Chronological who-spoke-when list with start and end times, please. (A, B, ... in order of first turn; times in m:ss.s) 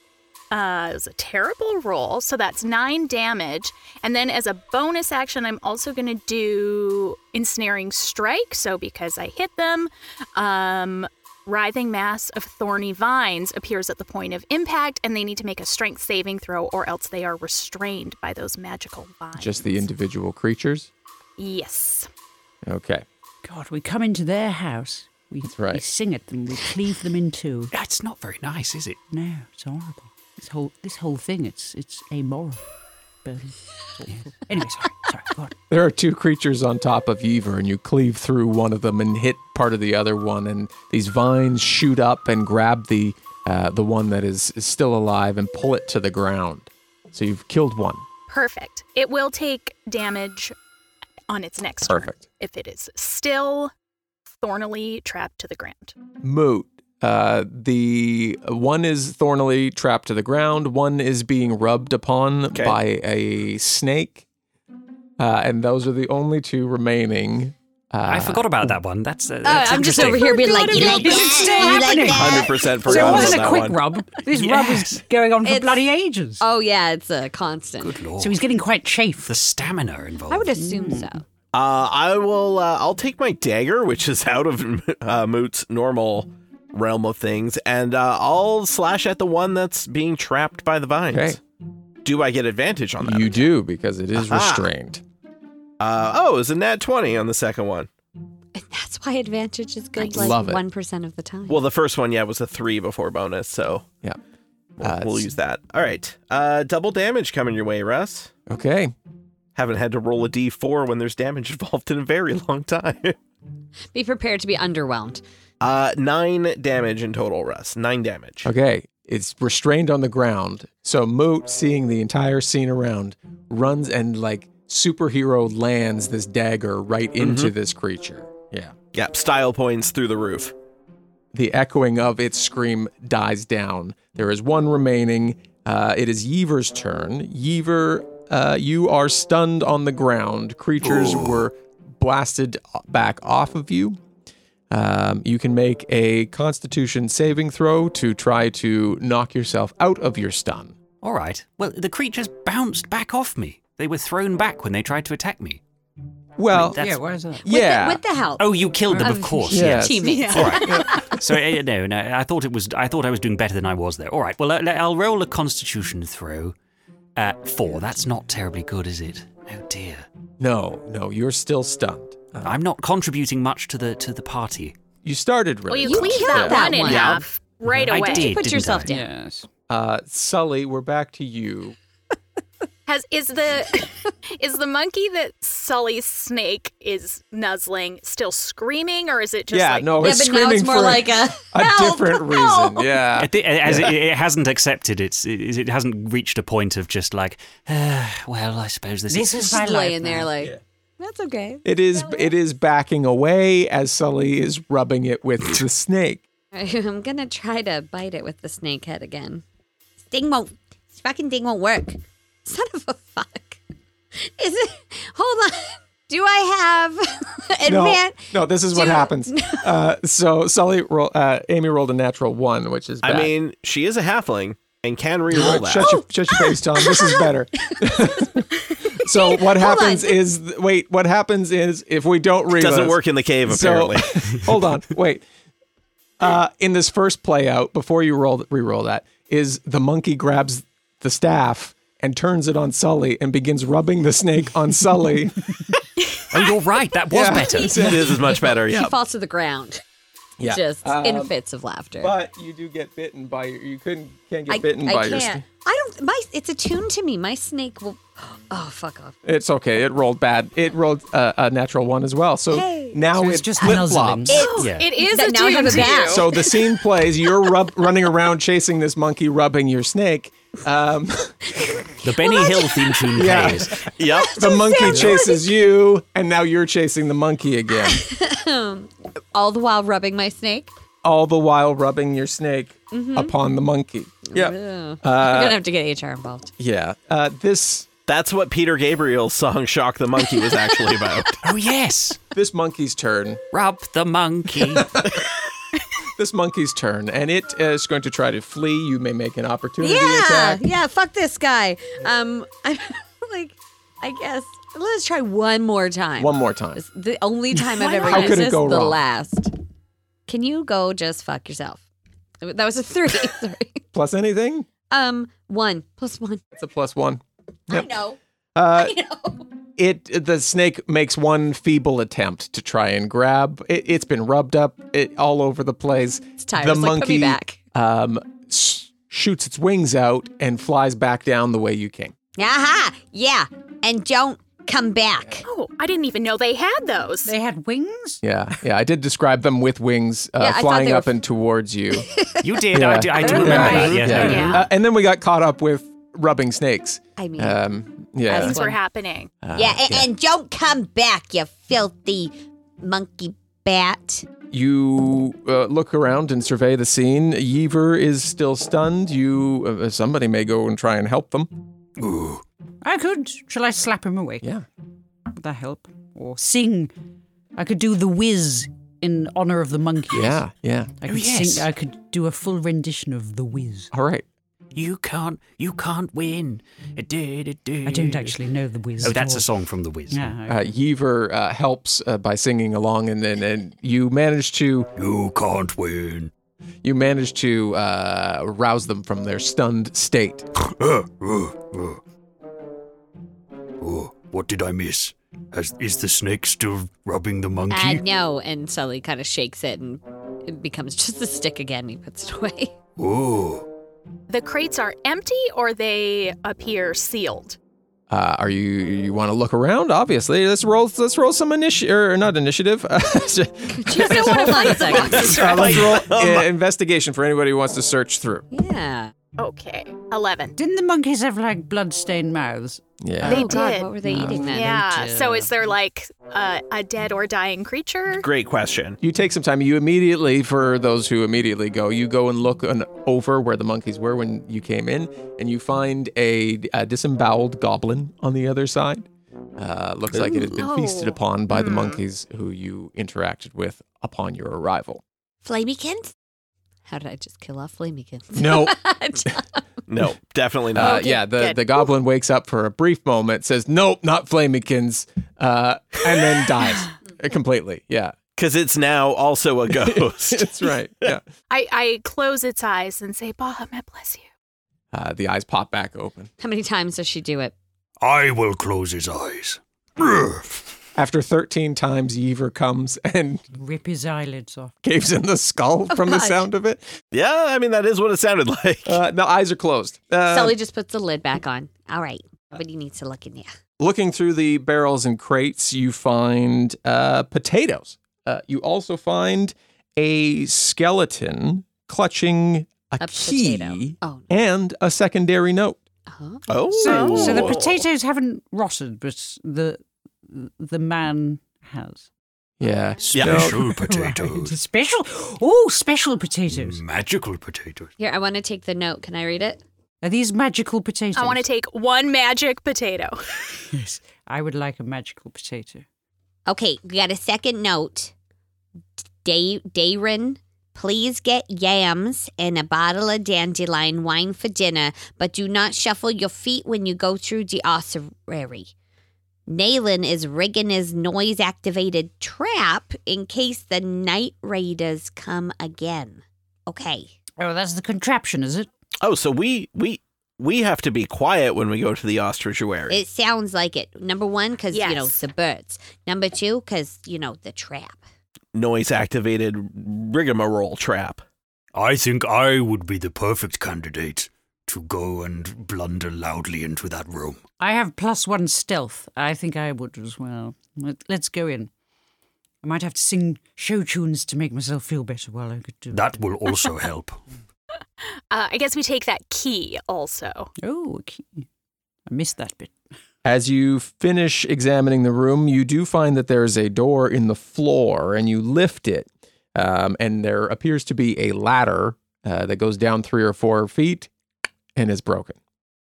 0:00.5-0:19.8 A
0:19.3-0:20.9 B
0:21.4-0:22.1 A
0:22.6-0:23.0 B
0:23.4-0:27.7 C
0:25.5-0:25.8 B
0:27.7-0:29.0 D
0:29.1-0:32.6 C
0:33.2-0:35.6 C
0:35.7-0:48.0 B
0:48.3-0:50.6 A
0:51.3-0:53.7 A
0:51.9-0:52.2 B
0:54.4-0:56.0 A
0:56.2-1:04.2 B
1:02.5-1:02.8 E
1:05.2-1:08.8 B
1:08.0-1:10.8 D
1:09.4-1:13.4 F
1:10.1-1:16.4 C
1:12.1-1:13.8 E
1:14.3-1:15.0 D
1:15.4-1:15.8 F
1:16.4-1:18.0 F
1:18.2-1:19.3 C
1:19.3-1:20.5 D
1:20.3-1:21.2 F
1:20.6-1:21.1 C
1:21.5-1:31.4 E
1:31.1-1:31.4 B
1:32.0-1:33.5 E
1:33.0-1:35.0 B
1:34.2-1:34.7 E
1:35.8-1:37.9 E
1:38.6-1:41.6 F
1:40.0-1:40.6 B
1:41.5-1:43.9 E
1:44.8-1:48.3 E
1:44.8-1:45.3 B
1:48.5-1:48.9 B
1:49.6-1:53.2 E
1:53.9-1:55.2 F
1:55.6-1:58.5 E
1:58.4-2:08.7 B
2:07.2-2:07.5 E
2:08.9-2:10.5 E
2:11.3-2:24.0 B
2:20.8-2:21.4 G
2:24.7-2:30.8 B
2:31.0-2:35.6 D
2:36.4-2:36.8 B
2:36.5-2:37.0 D
2:36.8-2:37.4 C
2:37.4-2:38.0 B
2:37.4-2:41.2 F
2:38.4-2:46.6 D
2:39.5-2:41.1 B
2:47.2-2:50.1 D
2:50.4-2:52.6 B
2:52.4-2:54.8 D
2:55.0-2:57.2 B
2:55.7-2:58.4 A
2:55.8-2:57.3 F
2:57.7-2:58.9 D
2:57.9-2:59.1 F
2:58.9-2:59.5 C
2:59.7-3:01.8 B
3:02.9-3:10.0 A
3:09.5-3:14.0 B
3:10.0-3:12.9 F
3:13.2-3:19.6 D
3:19.1-3:20.3 C
3:19.4-3:22.3 F
3:21.6-3:26.2 B
3:26.5-3:29.4 F
3:30.1-3:33.6 F
3:34.2-3:39.6 F
3:37.6-3:43.3 B
3:43.0-3:46.0 E
3:45.3-3:55.2 B
3:45.4-3:50.2 F
3:52.5-3:54.1 E
3:56.2-4:05.8 B
4:06.3-4:07.9 D
4:07.1-4:08.4 B
4:07.6-4:09.8 F
4:07.7-4:09.0 E
4:10.4-4:11.3 B
4:10.4-4:12.1 F
4:12.0-4:15.4 B
4:14.5-4:19.2 F
4:19.2-4:24.5 B
4:22.5-4:23.1 F
4:23.1-4:24.4 C
4:24.3-4:26.6 F
4:24.3-4:26.4 A
4:24.6-4:24.9 D
4:25.9-4:31.5 B
4:31.8-4:32.7 F
4:32.0-4:33.9 D
4:33.1-4:38.0 B
4:34.0-4:34.9 E
4:34.1-4:35.4 F
4:37.9-4:40.7 F
4:41.0-4:45.6 B
4:42.9-4:43.3 F
4:44.3-4:46.5 F
4:46.6-4:47.9 B
4:48.1-4:51.4 E
4:51.4-4:52.2 D
4:52.3-4:53.4 B
4:53.5-4:55.0 D
4:54.6-4:55.2 B
4:56.2-5:00.6 B
4:59.8-5:09.5 F
5:06.2-5:06.8 B
5:07.9-5:08.2 A
5:08.0-5:09.0 B
5:10.3-5:11.8 F
5:12.4-5:13.8 F
5:13.9-5:14.7 B
5:14.9-5:16.5 F
5:16.6-5:17.9 B
5:17.7-5:18.2 F
5:18.6-5:18.9 B
5:18.8-5:19.5 F
5:19.8-5:32.1 B
5:26.4-5:27.6 F
5:32.4-5:35.4 F
5:35.5-5:37.3 A
5:37.2-5:38.2 C
5:38.2-5:42.1 B
5:40.4-5:41.1 F
5:42.0-5:42.4 F
5:42.4-5:44.6 D
5:42.7-5:48.6 B
5:43.2-5:44.5 C
5:43.4-5:44.6 A
5:47.2-5:47.6 F
5:48.3-5:49.4 A
5:48.3-5:48.8 F
5:49.4-5:50.1 B
5:49.6-5:54.3 F
5:54.5-6:01.5 B
6:02.0-6:02.4 G
6:02.8-6:04.4 C
6:05.4-6:06.9 C
6:07.6-6:10.4 C
6:10.1-6:10.9 B
6:11.0-6:13.9 C
6:11.1-6:11.7 D
6:13.9-6:14.2 B
6:14.7-6:18.4 D
6:17.8-6:19.5 C
6:19.0-6:20.2 D
6:20.1-6:20.6 C
6:20.5-6:24.9 B
6:25.0-6:26.3 G
6:26.8-6:30.5 B
6:30.6-6:32.0 G
6:33.8-6:38.0 G
6:37.7-6:42.7 F
6:43.0-6:43.6 G
6:44.3-6:47.6 A
6:48.1-6:58.4 B
6:53.7-6:56.0 F
6:55.0-6:56.4 E
6:55.2-6:55.5 A
6:58.5-6:59.1 F
6:59.4-7:00.5 A
7:00.6-7:02.8 C
7:03.0-7:03.6 B
7:03.2-7:08.3 A
7:03.2-7:05.2 F
7:04.1-7:04.5 B
7:04.5-7:05.5 C
7:08.2-7:09.0 E
7:09.0-7:25.0 B
7:20.1-7:21.2 F
7:21.5-7:22.0 A
7:25.4-7:26.1 F
7:26.9-7:29.6 F
7:28.4-7:28.8 B
7:29.9-7:30.9 E
7:30.7-7:38.2 B
7:30.8-7:31.9 A
7:38.4-7:40.5 E
7:39.7-7:41.2 B
7:41.5-7:44.3 A
7:44.9-7:46.3 B
7:46.4-7:47.6 F
7:48.0-7:50.8 G
7:51.0-7:53.4 B
7:53.5-7:54.7 C
7:54.8-7:56.9 B
7:55.9-7:56.4 F
7:57.1-7:59.0 E
7:58.9-8:00.6 B
8:00.3-8:03.5 F
8:03.8-8:15.8 B
8:13.0-8:14.3 F
8:16.1-8:17.6 F
8:16.5-8:17.8 E
8:16.7-8:22.1 C
8:22.6-8:23.7 B
8:23.2-8:23.5 E
8:23.2-8:24.6 G
8:23.6-8:26.8 C
8:26.5-8:27.9 G
8:28.0-8:29.6 F
8:30.0-8:31.4 C
8:31.1-8:33.2 A
8:33.7-8:35.9 C
8:36.5-8:38.1 F
8:39.2-8:48.7 F
8:49.5-8:57.1 F
8:57.4-8:58.7 C
8:59.0-9:03.0 E
9:02.9-9:08.0 F
9:04.7-9:05.2 A
9:08.5-9:11.2 E
9:11.7-9:17.4 G
9:17.6-9:21.7 C
9:22.6-9:26.2 C
9:25.9-9:27.2 G
9:28.3-9:30.5 A
9:30.6-9:31.4 C
9:32.1-9:32.7 C
9:33.2-9:44.1 B
9:44.7-9:45.4 B